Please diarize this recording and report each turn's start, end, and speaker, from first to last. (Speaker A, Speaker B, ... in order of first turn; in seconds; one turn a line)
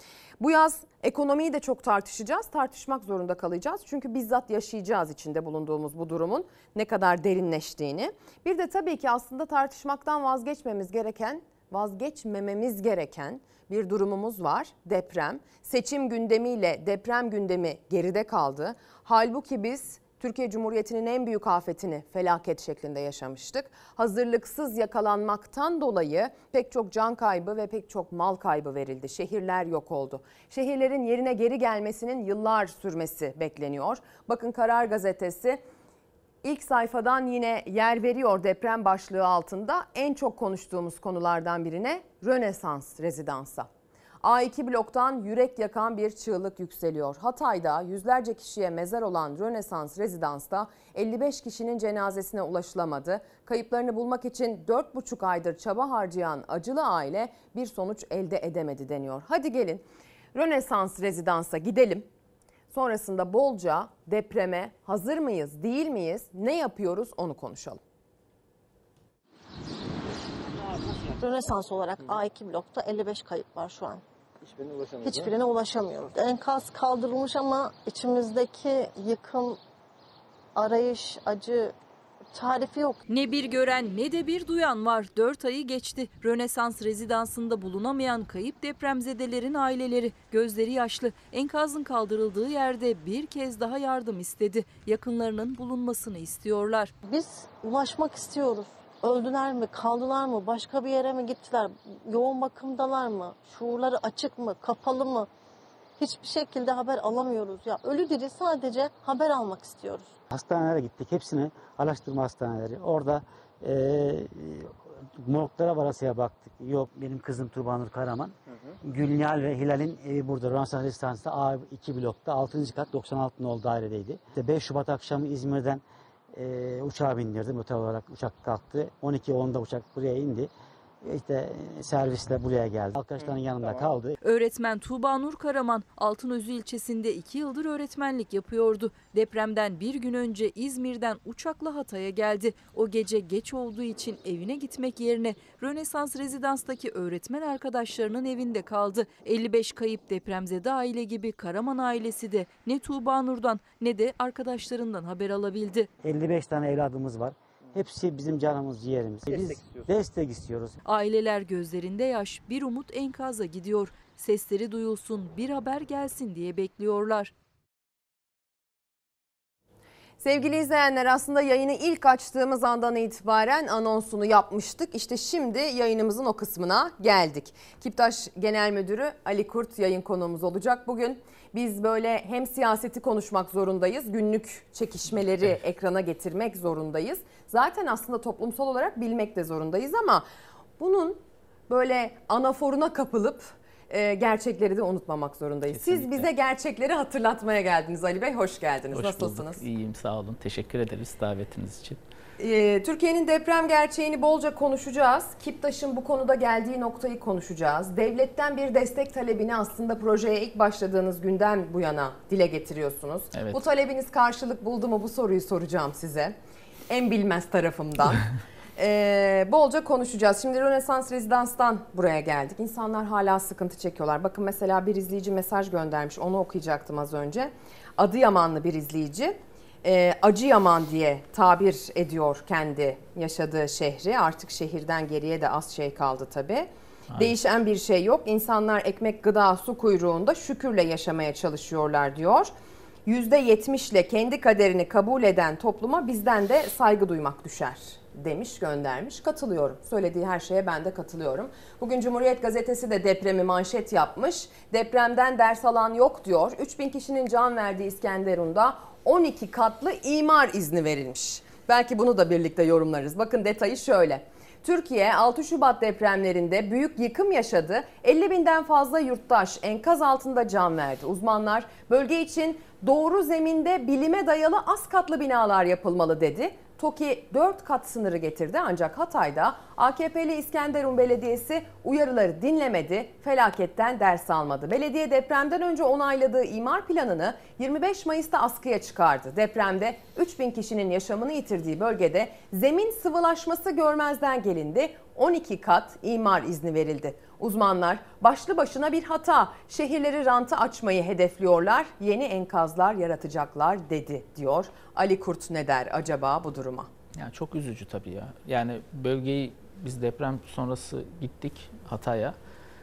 Speaker A: 0.4-35.6
Speaker A: 36.4-43.7
Speaker A: 44.2-62.1
Speaker A: 62.7-67.8
Speaker B: 71.0-74.0
Speaker B: 75.0-79.6
Speaker B: 80.5-81.7
Speaker B: 82.3-83.0
Speaker C: 83.1-96.9
Speaker B: 97.0-105.3
Speaker B: 106.0-110.2
Speaker D: 110.3-130.5
Speaker D: 131.0-134.1
Speaker C: 134.2-155.9
Speaker D: 156.0-160.8
Speaker C: 160.8-167.3
Speaker A: 170.2-190.2
Speaker A: 190.8-199.6
Speaker E: 195.7-196.3
Speaker E: 198.9-202.0
Speaker A: 202.4-216.3
Speaker A: 216.9-218.2
Speaker A: 218.8-242.5
Speaker A: 243.1-306.9
Speaker E: 307.1-312.4